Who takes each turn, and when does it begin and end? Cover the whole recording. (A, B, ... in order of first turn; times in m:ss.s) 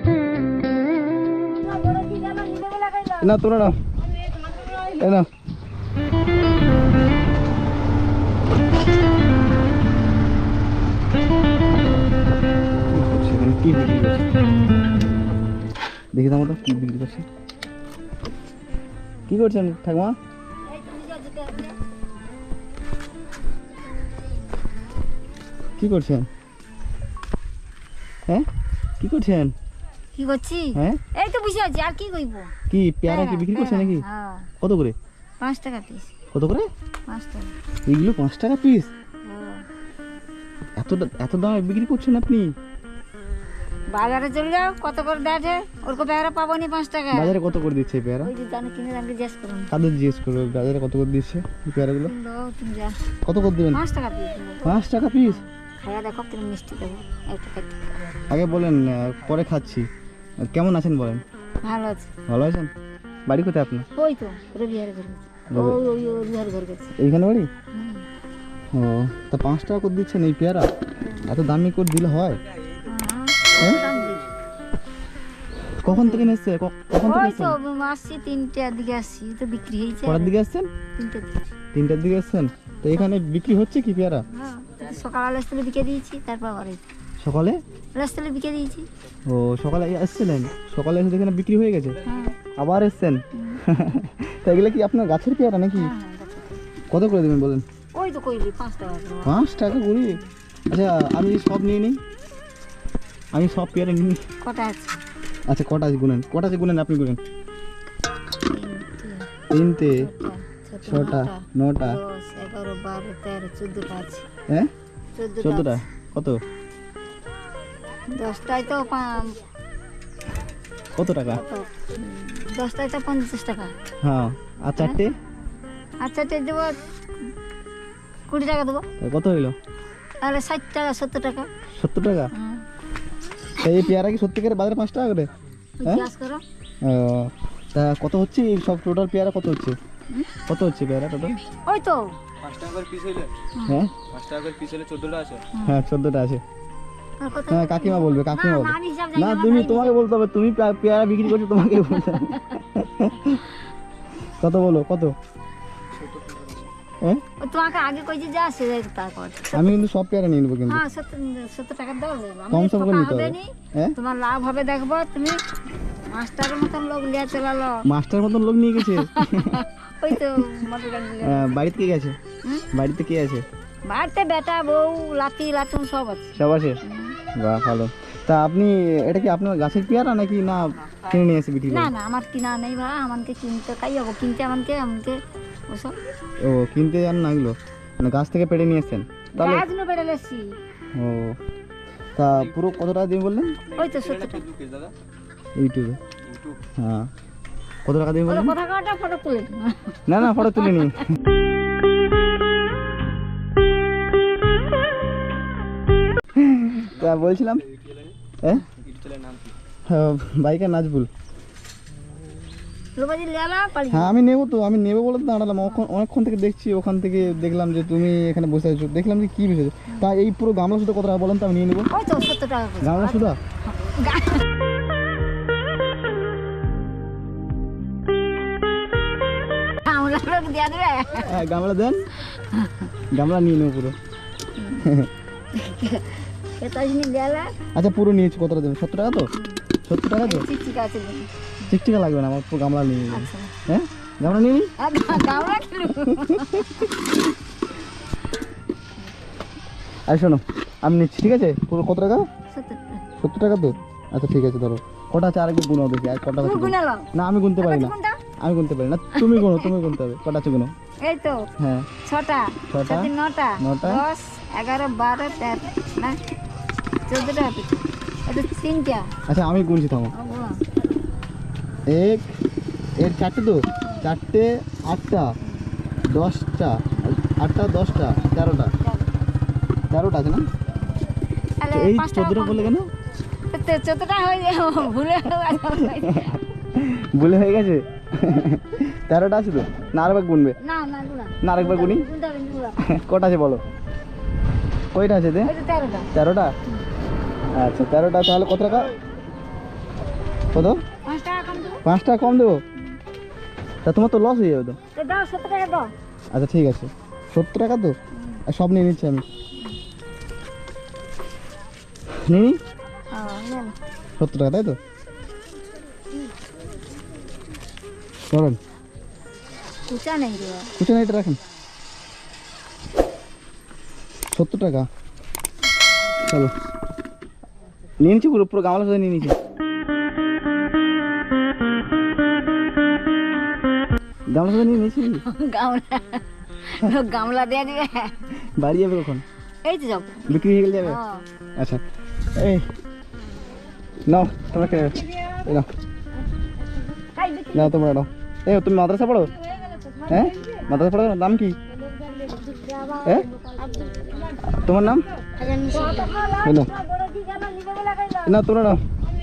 0:01.6-0:03.3 A
0:03.2-0:03.7 B
0:04.9-0:05.3 B
0:12.9-0:14.2 B
0:16.1-0:17.2 B
0:19.3-0:20.2 B
0:20.6-0:21.8 A
0:25.8-0:26.3 B
0:29.0-0:29.5 B
0:30.1-0:32.5 A
0:30.7-0:31.0 B
0:32.7-0:34.0 B
0:33.0-0:34.5 A
0:34.6-0:34.9 B
0:35.4-0:36.1 A
0:36.3-0:36.7 B
0:37.1-0:37.5 A
0:37.9-0:38.9 B
0:39.2-0:39.7 A
0:40.8-0:42.5 B
0:43.9-0:47.4 A
0:47.1-0:48.3 B
0:48.2-0:49.7 A
0:49.7-0:52.1 B
0:52.0-0:53.0 A
0:53.2-0:53.8 B
0:53.7-0:57.9 A
0:54.6-0:55.4 B
0:58.3-0:59.9 B
1:00.4-1:01.2 B
1:01.6-1:02.1 A
1:02.3-1:02.7 B
1:03.3-1:03.8 B
1:04.0-1:07.0 A
1:05.5-1:05.8 B
1:07.0-1:07.5 B
1:07.7-1:08.1 A
1:08.7-1:10.7 B
1:11.2-1:12.4 B
1:12.8-1:14.3 A
1:13.6-1:13.8 B
1:15.8-1:17.6 B
1:15.8-1:16.4 A
1:17.0-1:20.4 A
1:20.0-1:20.7 B
1:21.0-1:21.5 A
1:21.7-1:24.2 B
1:24.3-1:26.8 A
1:27.2-1:27.6 B
1:27.9-1:28.9 A
1:29.3-1:32.0 B
1:32.0-1:32.4 A
1:32.6-1:35.9 B
1:33.3-1:33.6 A
1:35.7-1:36.6 A
1:36.9-1:37.6 B
1:37.9-1:39.4 A
1:39.2-1:42.0 B
1:43.3-1:44.2 B
1:44.4-1:45.0 A
1:45.5-1:47.2 B
1:48.5-1:49.3 A
1:49.5-1:50.1 B
1:49.8-1:54.2 A
1:50.8-1:52.0 B
1:55.2-1:55.8 A
1:55.4-1:56.4 B
1:58.1-1:59.4 A
2:01.0-2:01.4 B
2:01.3-2:03.7 A
2:04.0-2:05.1 B
2:06.0-2:06.8 A
2:08.3-2:08.8 A
2:09.0-2:09.5 B
2:10.2-2:11.5 A
2:11.7-2:12.3 B
2:12.3-2:12.6 A
2:13.6-2:15.3 B
2:15.8-2:16.4 A
2:16.8-2:19.8 B
2:20.1-2:20.4 A
2:20.5-2:21.4 B
2:21.6-2:22.2 A
2:22.4-2:23.3 C
2:23.5-2:23.8 A
2:23.6-2:23.9 B
2:24.1-2:25.4 C
2:25.5-2:25.8 A
2:25.6-2:26.4 B
2:27.2-2:30.1 A
2:27.5-2:33.4 B
2:34.4-2:35.1 B
2:36.0-2:36.5 C
2:37.4-2:39.8 A
2:39.5-2:40.8 B
2:40.6-2:45.4 A
2:42.5-2:44.0 B
2:46.1-2:47.8 A
2:47.8-2:49.6 B
2:48.9-2:51.5 A
2:51.2-2:52.2 B
2:52.7-2:53.4 B
2:53.8-2:57.2 A
2:56.4-2:56.8 B
2:57.3-3:01.9 B
3:01.7-3:05.2 A
3:05.7-3:06.0 A
3:06.4-3:09.6 B
3:09.4-3:10.5 A
3:10.9-3:11.4 B
3:12.2-3:13.6 B
3:13.7-3:14.5 A
3:13.9-3:14.9 C
3:15.6-3:16.0 B
3:16.8-3:17.1 B
3:17.8-3:18.5 B
3:18.2-3:20.9 A
3:20.1-3:21.1 B
3:26.4-3:27.7 B
3:27.8-3:28.1 C
3:28.4-3:28.7 B
3:28.8-3:29.5 C
3:29.9-3:31.1 B
3:33.0-3:34.2 A
3:33.9-3:41.9 B
3:41.9-3:44.4 A
3:42.8-3:43.4 B
3:49.8-3:51.4 A
3:51.2-3:52.1 B
3:52.3-3:52.9 A
3:53.1-3:54.0 B
3:54.6-3:54.9 A
3:54.8-3:55.1 B
3:55.5-3:57.5 A
3:57.7-3:59.3 B
3:59.3-3:59.6 A
3:59.8-4:00.4 B
4:00.2-4:01.3 A
4:01.6-4:05.4 B
4:03.1-4:03.5 A
4:04.8-4:07.0 A
4:05.9-4:06.9 B
4:10.1-4:12.2 B
4:12.5-4:13.1 A
4:13.2-4:20.7 B
4:16.4-4:18.2 A
4:19.1-4:19.7 A
4:21.0-4:21.5 A
4:21.6-4:21.9 B
4:22.0-4:26.2 A
4:22.7-4:24.0 B
4:27.1-4:29.1 A
4:29.3-4:30.1 B
4:30.1-4:30.6 A
4:31.9-4:32.3 B
4:33.0-4:35.3 B
4:35.4-4:35.7 A
4:36.1-4:38.7 B
4:38.8-4:39.2 A
4:39.9-4:40.5 B
4:41.6-4:42.7 A
4:41.7-4:42.9 B
4:43.5-4:46.4 A
4:45.8-4:50.6 B
4:50.6-4:52.8 A
4:51.4-4:52.0 B
4:52.8-4:53.6 B
4:54.9-4:55.5 B
4:55.4-4:56.1 A
4:56.1-4:56.5 B
4:57.5-4:58.9 B
5:00.5-5:00.8 B
5:01.0-5:01.8 A
5:01.8-5:02.6 B
5:03.8-5:04.8 B
5:04.9-5:05.9 A
5:06.3-5:07.9 B
5:08.1-5:08.4 A
5:08.4-5:09.2 B
5:12.2-5:12.6 B
5:13.1-5:13.8 A
5:14.2-5:14.8 B
5:18.3-5:18.6 B
5:19.9-5:20.7 A
5:20.8-5:21.4 B
5:24.3-5:24.9 B
5:26.3-5:26.5 B
5:28.0-5:29.4 B
5:34.3-5:35.2 B
5:35.2-5:38.3 A
5:38.6-5:39.2 B
5:39.6-5:41.2 A
5:40.3-5:41.0 B
5:41.6-5:41.8 B
5:42.3-5:42.6 B
5:44.1-5:45.7 B
5:47.0-5:47.9 A
5:47.5-5:49.3 B
5:49.8-5:50.1 A
5:50.1-5:51.6 B
5:52.6-5:54.3 A
5:53.0-5:53.3 B
5:54.5-5:55.1 B
5:55.4-5:58.4 A
5:56.4-5:56.7 B
5:58.2-5:58.8 B